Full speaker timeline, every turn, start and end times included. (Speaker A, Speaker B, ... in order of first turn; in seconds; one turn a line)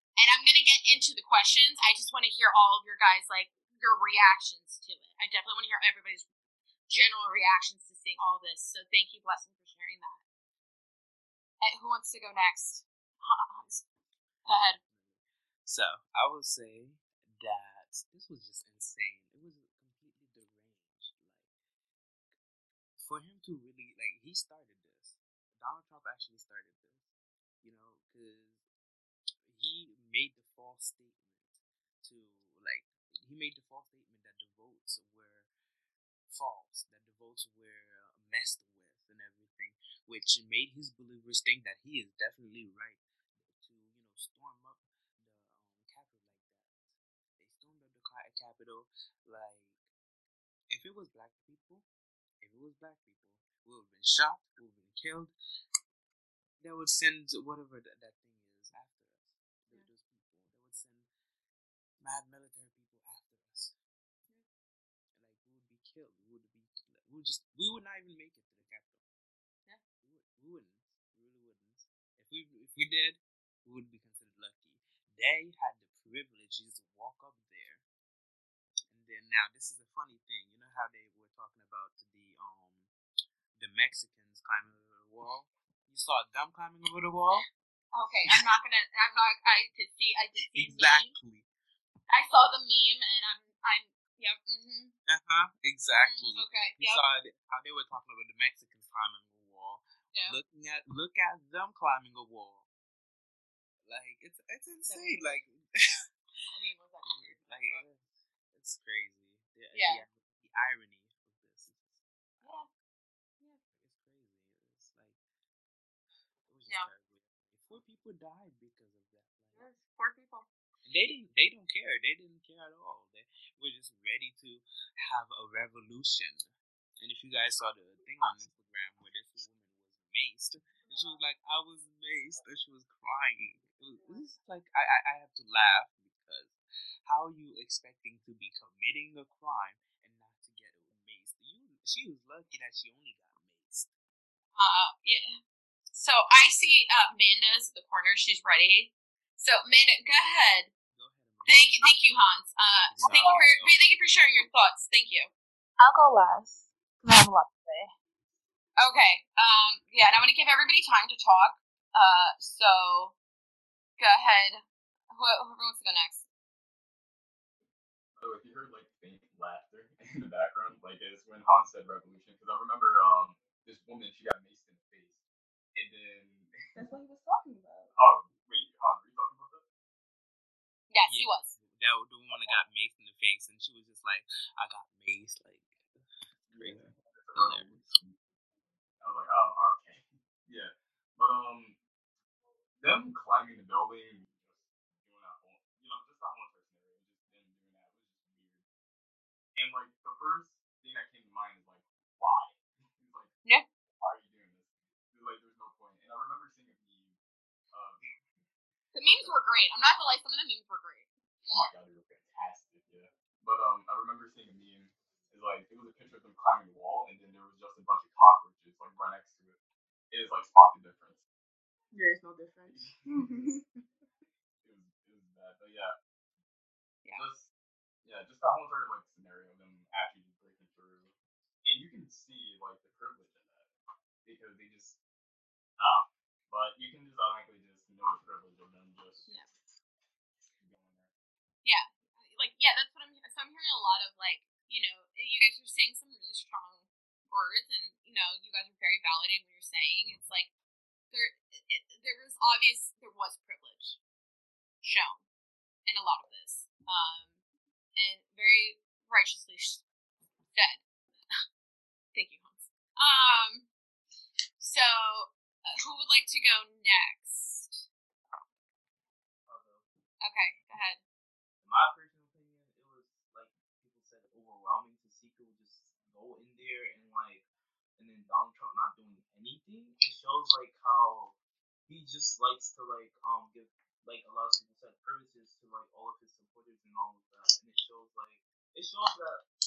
Speaker A: 0.2-6.3
Speaker A: 6.9-10.2
Speaker A: 11.6-13.8
Speaker B: 13.6-13.8
Speaker A: 14.4-14.8
Speaker B: 14.6-21.5
Speaker B: 23.0-28.6
Speaker B: 29.4-35.5
Speaker B: 36.3-49.9
Speaker B: 50.7-51.9
Speaker B: 52.4-55.3
Speaker B: 56.6-61.1
Speaker B: 62.0-63.8
Speaker B: 65.1-69.0
Speaker B: 70.0-77.8
Speaker B: 78.9-82.9
Speaker B: 83.5-87.5
Speaker A: 87.9-91.1
Speaker B: 90.4-91.5
Speaker A: 92.1-94.9
Speaker B: 95.1-102.7
Speaker A: 95.9-97.0
Speaker A: 100.1-100.4
Speaker B: 103.8-106.1
Speaker A: 104.8-105.4
Speaker A: 106.5-107.8
Speaker B: 107.0-112.7
Speaker A: 109.7-110.0
Speaker A: 112.4-112.7
Speaker B: 113.7-115.2
Speaker B: 116.4-119.7
Speaker A: 119.5-120.5
Speaker B: 120.8-143.9
Speaker A: 144.6-145.4
Speaker A: 145.9-150.7
Speaker B: 150.9-151.9
Speaker A: 151.4-155.3
Speaker B: 152.9-153.4
Speaker C: 153.0-153.7
Speaker D: 155.8-157.9
Speaker A: 158.8-163.1
Speaker A: 164.0-166.3
Speaker C: 168.1-175.2
Speaker C: 175.7-176.5
Speaker E: 176.7-177.9
Speaker C: 177.9-179.6
Speaker A: 180.9-181.5
Speaker B: 181.1-185.9
Speaker C: 182.3-182.6
Speaker C: 186.5-188.2
Speaker B: 186.5-187.9
Speaker C: 189.0-191.8
Speaker C: 192.8-198.6
Speaker C: 199.6-203.3
Speaker C: 204.0-207.2
Speaker C: 207.7-208.0
Speaker A: 208.9-211.1
Speaker C: 209.0-209.3
Speaker C: 211.5-219.6
Speaker C: 220.1-221.2
Speaker E: 221.9-223.7
Speaker C: 222.7-223.0
Speaker C: 224.6-225.9
Speaker C: 227.2-227.5
Speaker C: 228.0-233.7
Speaker C: 234.2-235.0
Speaker C: 235.8-239.3
Speaker C: 240.6-241.1
Speaker A: 241.6-250.5
Speaker A: 251.1-254.0
Speaker A: 254.8-255.2
Speaker A: 255.9-257.4
Speaker A: 257.9-259.8
Speaker A: 260.5-261.4
Speaker A: 262.1-263.7
Speaker A: 264.6-267.9
Speaker F: 269.5-269.8
Speaker A: 270.2-271.0
Speaker F: 271.6-277.5
Speaker F: 278.0-281.3
Speaker F: 281.9-289.4